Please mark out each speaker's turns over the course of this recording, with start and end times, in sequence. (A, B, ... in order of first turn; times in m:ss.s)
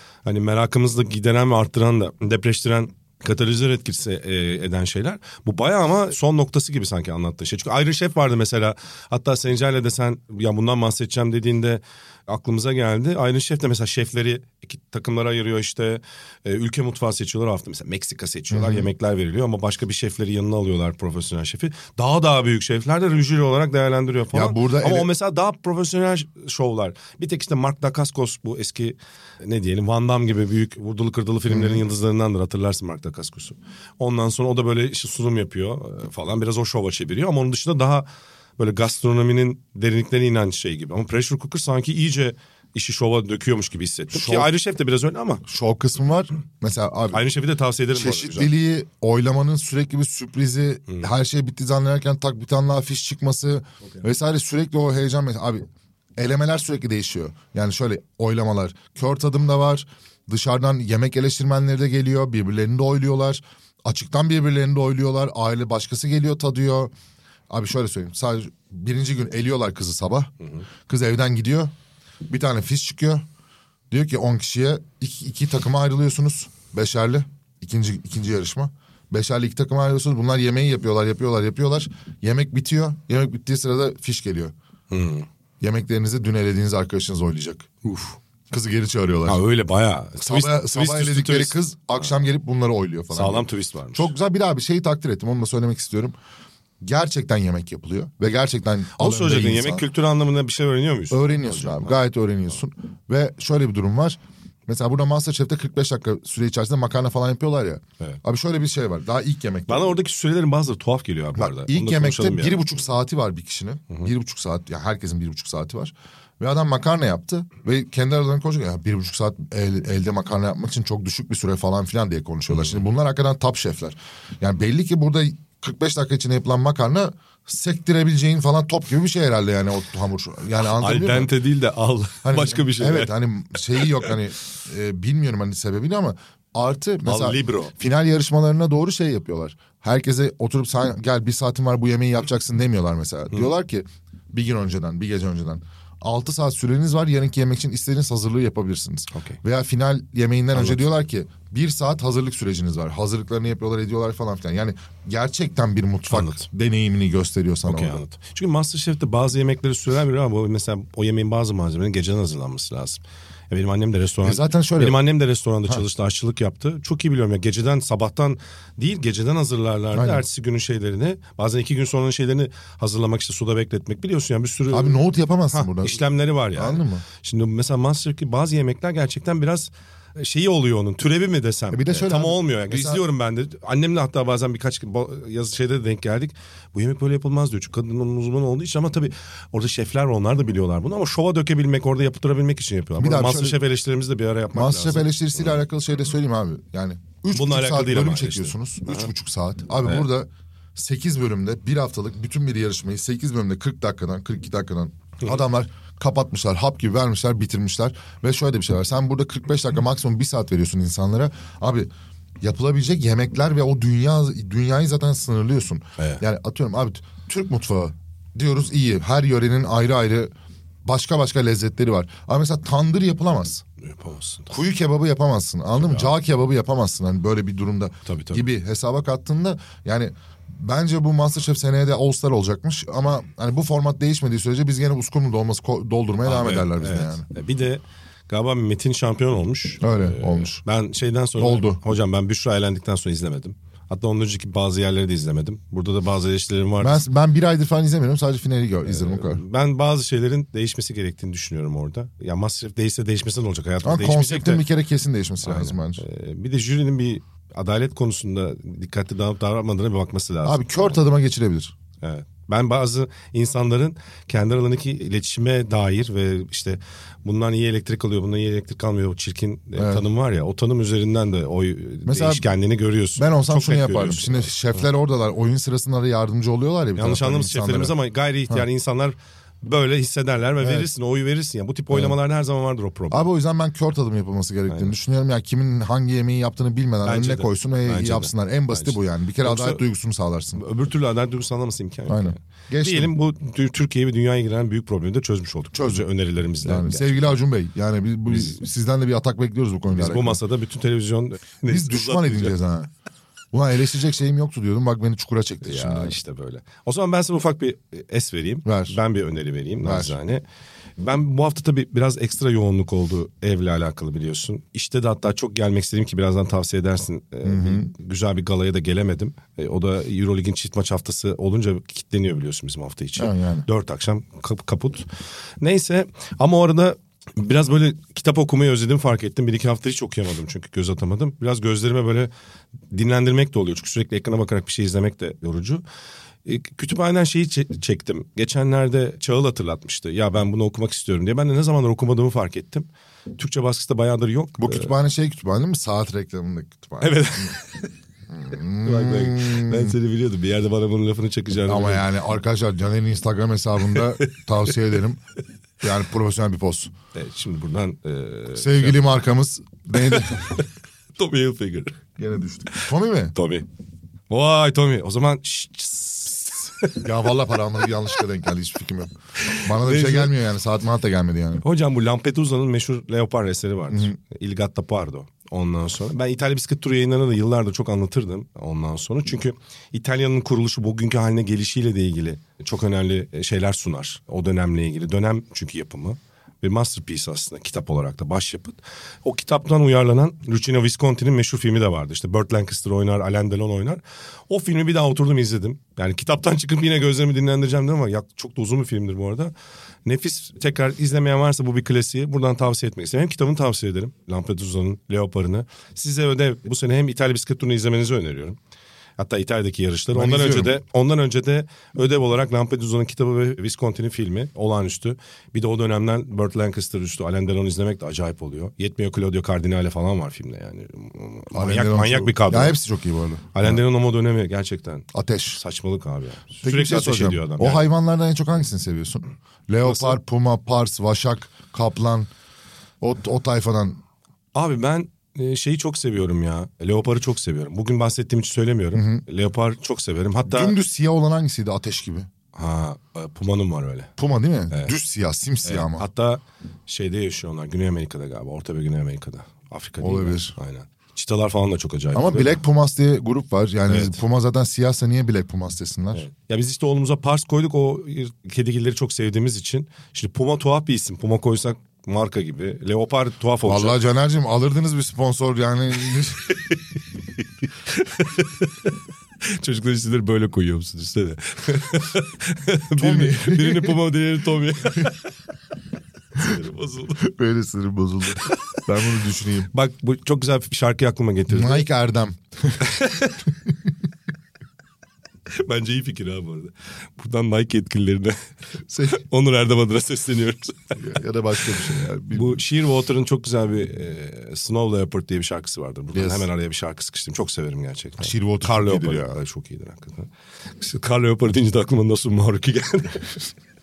0:00.2-0:38.1 A
0:18.5-0:18.9 B
0:24.3-0:25.1 B
0:31.5-0:31.8 B
0:38.6-0:45.4 A
0:44.1-0:44.5 B
0:45.4-0:47.2 B
0:47.1-0:48.5 A
0:47.9-1:06.9 B
1:07.5-1:10.3 B
1:10.9-1:11.7 B
1:12.3-1:13.2 B
1:13.9-1:24.5 B
1:24.9-1:25.2 A
1:25.6-1:27.7 B
1:27.8-1:28.2 A
1:28.5-1:29.4 B
1:29.2-1:31.6 A
1:30.2-1:36.2 B
1:33.1-1:34.1 A
1:36.8-1:39.9 B
1:39.0-1:41.9 A
1:41.1-1:50.0 B
1:49.7-1:52.7 A
1:51.4-2:11.3 B
2:02.5-2:02.8 A
2:10.6-2:13.2 A
2:12.2-2:38.0 B
2:13.8-2:14.1 A
2:17.0-2:17.7 A
2:29.1-2:29.4 A
2:30.5-2:30.8 A
2:36.1-2:36.4 A
2:37.6-3:15.4 A
2:44.2-2:45.0 B
2:49.9-2:50.2 B
2:54.7-2:57.0 B
3:01.7-3:03.0 B
3:13.0-3:13.6 B
3:14.5-3:31.9 B
3:17.3-3:19.1 A
3:32.4-3:40.3 B
3:40.8-3:43.6 B
3:43.8-3:44.5 A
3:44.5-3:57.2 B
3:45.8-3:46.1 A
3:48.0-3:48.4 A
3:56.2-4:07.0 A
3:59.8-4:00.6 B
4:01.4-4:01.8 B
4:06.8-4:09.4 B
4:08.8-4:14.6 A
4:13.8-4:16.0 B
4:15.4-4:21.0 A
4:20.4-4:21.7 B
4:22.0-4:34.5 A
4:29.7-4:30.0 B
4:32.0-4:32.5 B
4:33.2-4:37.9 B
4:37.0-4:43.2 A
4:40.6-4:40.9 B
4:41.9-4:42.2 B
4:43.1-4:50.6 B
4:44.7-4:44.9 A
4:47.0-4:49.8 A
4:50.6-4:57.4 A
4:52.1-4:53.1 B
4:55.7-4:56.1 B
4:56.6-5:00.4 B
4:59.9-5:02.6 A
5:01.6-5:02.9 B
5:03.5-5:06.2 B
5:05.6-5:10.4 A
5:08.6-5:09.0 B
5:09.8-5:10.2 B
5:11.0-5:25.1 A
5:17.4-5:17.9 B
5:23.2-5:23.7 B
5:25.6-5:32.3 A
5:32.9-5:35.8 A
5:36.4-5:44.9 A
5:44.6-5:47.5 B
5:47.0-5:47.9 A
5:48.3-5:50.0 B
5:48.8-5:52.1 A
5:51.6-5:55.2 B
5:54.0-5:54.3 A
5:55.8-5:56.9 B
5:57.1-5:59.0 A
5:58.5-6:00.6 B
6:00.0-6:02.0 A
6:02.2-6:03.3 B
6:02.7-6:03.7 A
6:04.3-6:07.1 A
6:07.0-6:11.6 B
6:09.4-6:10.4 A
6:11.6-6:39.5 A
6:40.0-6:48.6 A
6:49.2-7:02.8 A
6:50.1-6:50.7 B
7:01.5-7:03.8 B
7:03.5-7:07.9 A
7:05.1-7:05.6 B
7:06.6-7:12.3 B
7:09.8-7:10.2 A
7:13.0-7:14.0 B
7:14.5-7:20.8 A
7:18.9-7:19.2 B
7:20.5-7:22.3 B
7:22.5-7:24.1 A
7:24.2-7:26.0 B
7:25.6-7:32.6 A
7:30.0-7:30.5 B
7:32.1-7:36.2 B
7:33.9-7:34.2 A
7:36.1-7:44.0 A
7:43.6-7:46.6 B
7:46.5-7:46.8 A
7:47.8-7:55.3 A
7:53.0-7:54.0 B
7:56.3-7:57.3 A
7:57.2-7:59.7 B
7:58.4-7:58.8 A
7:59.7-8:01.9 A
8:01.5-8:02.8 B
8:02.8-8:03.5 A
8:05.5-8:08.4 A
8:08.9-8:09.2 B
8:09.0-8:11.0 A
8:11.0-8:12.6 B
8:12.3-8:23.5 A
8:16.1-8:16.5 B
8:18.2-8:19.4 B